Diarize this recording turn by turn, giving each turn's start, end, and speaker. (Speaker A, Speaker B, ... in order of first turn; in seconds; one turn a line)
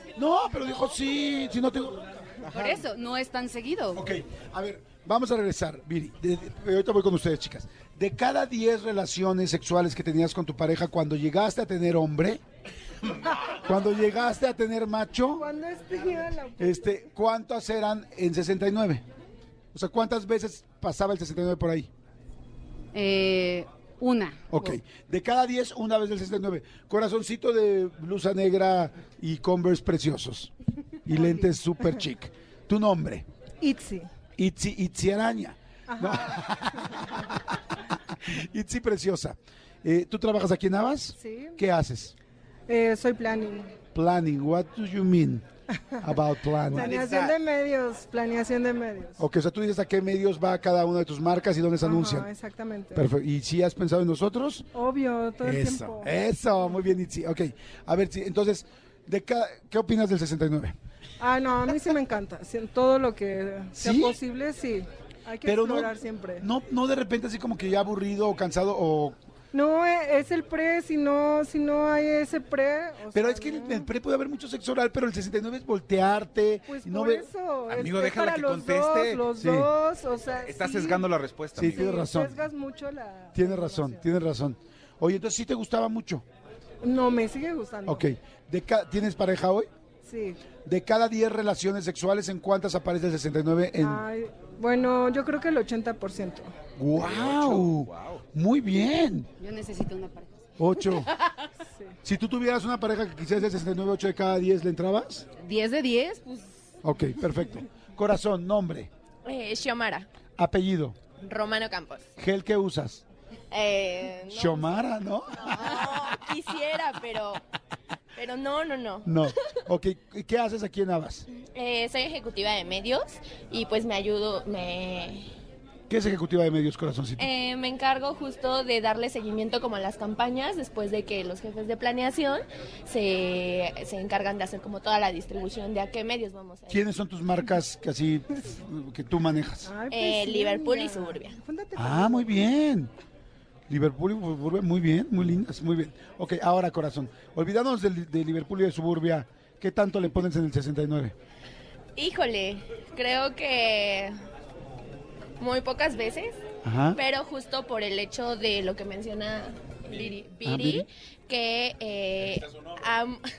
Speaker A: 0.1-2.7
Speaker B: 2.5-4.0
Speaker A: 4.0-12.4
Speaker A: 13.5-15.5
Speaker C: 15.3-16.9
Speaker A: 16.6-19.0
Speaker A: 19.7-21.9
Speaker B: 22.9-24.8
Speaker A: 24.5-30.5
Speaker A: 31.1-33.2
Speaker C: 31.1-32.0
Speaker C: 33.6-34.1
Speaker A: 34.4-42.1
Speaker C: 35.9-36.3
Speaker C: 41.2-41.6
Speaker C: 42.7-43.7
Speaker A: 44.0-45.4
Speaker A: 46.0-46.9
Speaker D: 46.7-47.4
Speaker C: 46.8-49.2
Speaker A: 49.2-52.3
Speaker C: 51.8-53.1
Speaker A: 53.0-54.7
Speaker C: 54.8-56.7
Speaker A: 55.4-60.8
Speaker C: 61.2-66.4
Speaker A: 63.8-64.2
Speaker A: 65.4-69.2
Speaker C: 69.5-73.9
Speaker A: 73.1-77.3
Speaker C: 76.7-81.1
Speaker D: 77.7-79.3
Speaker A: 79.4-79.7
Speaker D: 80.4-81.9
Speaker A: 81.6-82.4
Speaker C: 81.6-84.0
Speaker A: 83.3-86.2
Speaker C: 86.8-88.1
Speaker A: 87.9-89.7
Speaker C: 90.0-90.4
Speaker A: 90.7-94.0
Speaker C: 93.8-96.5
Speaker A: 96.8-99.3
Speaker D: 97.0-98.2
Speaker B: 99.4-100.4
Speaker A: 100.6-101.2
Speaker C: 101.7-101.9
Speaker A: 102.0-105.2
Speaker B: 105.4-106.5
Speaker A: 106.8-108.9
Speaker E: 109.2-110.1
Speaker A: 110.4-111.0
Speaker E: 111.2-112.1
Speaker A: 112.2-113.0
Speaker E: 113.5-117.4
Speaker A: 114.3-115.6
Speaker E: 118.2-119.3
Speaker A: 119.1-121.2
Speaker E: 121.3-125.3
Speaker A: 125.9-127.3
Speaker E: 127.2-136.8
Speaker A: 136.7-139.7
Speaker C: 139.6-142.5
Speaker E: 139.9-141.4
Speaker A: 141.8-142.9
Speaker A: 143.7-151.2
Speaker E: 152.0-154.1
Speaker E: 155.4-156.3
Speaker A: 156.6-157.0
Speaker E: 156.9-163.2
Speaker A: 160.4-160.9